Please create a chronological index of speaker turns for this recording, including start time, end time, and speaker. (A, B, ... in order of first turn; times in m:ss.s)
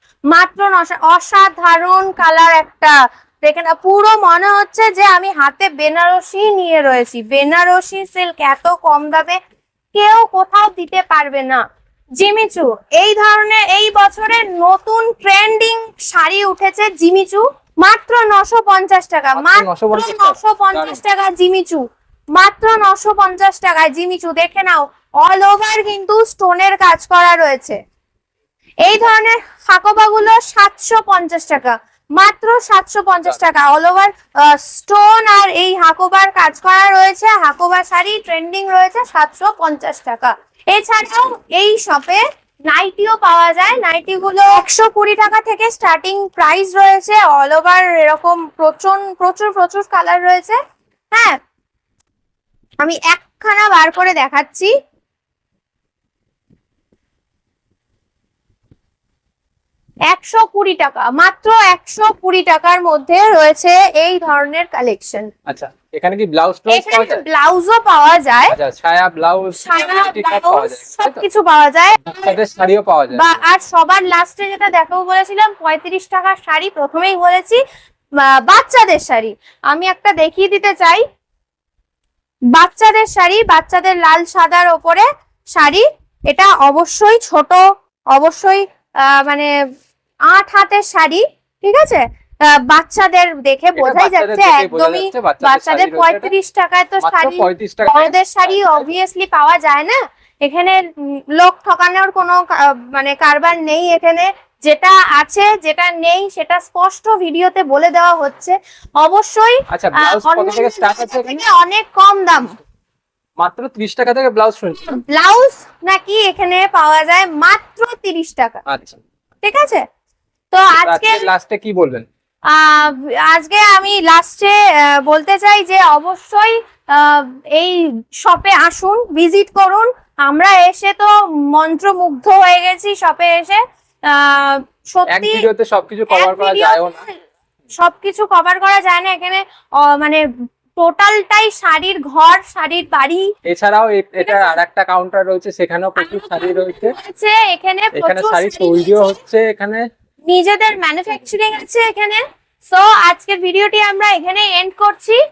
0:00.3-0:09.4 A
0:09.9-0:11.6 A
0:12.2-0:21.8 A
0:19.4-0:21.0 B
0:22.4-0:27.8 A
0:28.8-0:50.6 A
0:51.1-0:51.4 A
0:52.8-0:54.7 A
1:00.1-1:05.3 A
1:05.5-1:07.2 B
1:06.7-1:08.6 A
1:08.5-1:11.2 B
1:09.6-1:12.4 A
1:12.0-1:13.4 B
1:13.1-1:17.6 A
1:18.2-1:21.0 A
1:22.6-1:29.5 A
1:30.3-1:40.9 A
1:33.8-1:36.3 B
1:37.0-1:38.9 B
1:41.4-1:52.6 A
1:49.7-1:51.4 B
1:53.4-1:55.0 B
1:54.9-1:58.6 A
1:58.7-1:59.0 B
1:59.4-1:59.8 A
2:00.5-2:01.3 A
2:00.8-2:02.1 B
2:02.5-2:15.5 A
2:15.1-2:17.0 B
2:16.1-2:17.2 A
2:17.7-2:20.2 A
2:20.8-2:23.3 A
2:23.5-2:26.9 B
2:24.2-2:24.6 A
2:26.0-2:29.2 A
2:28.0-2:29.9 B
2:30.3-2:35.2 A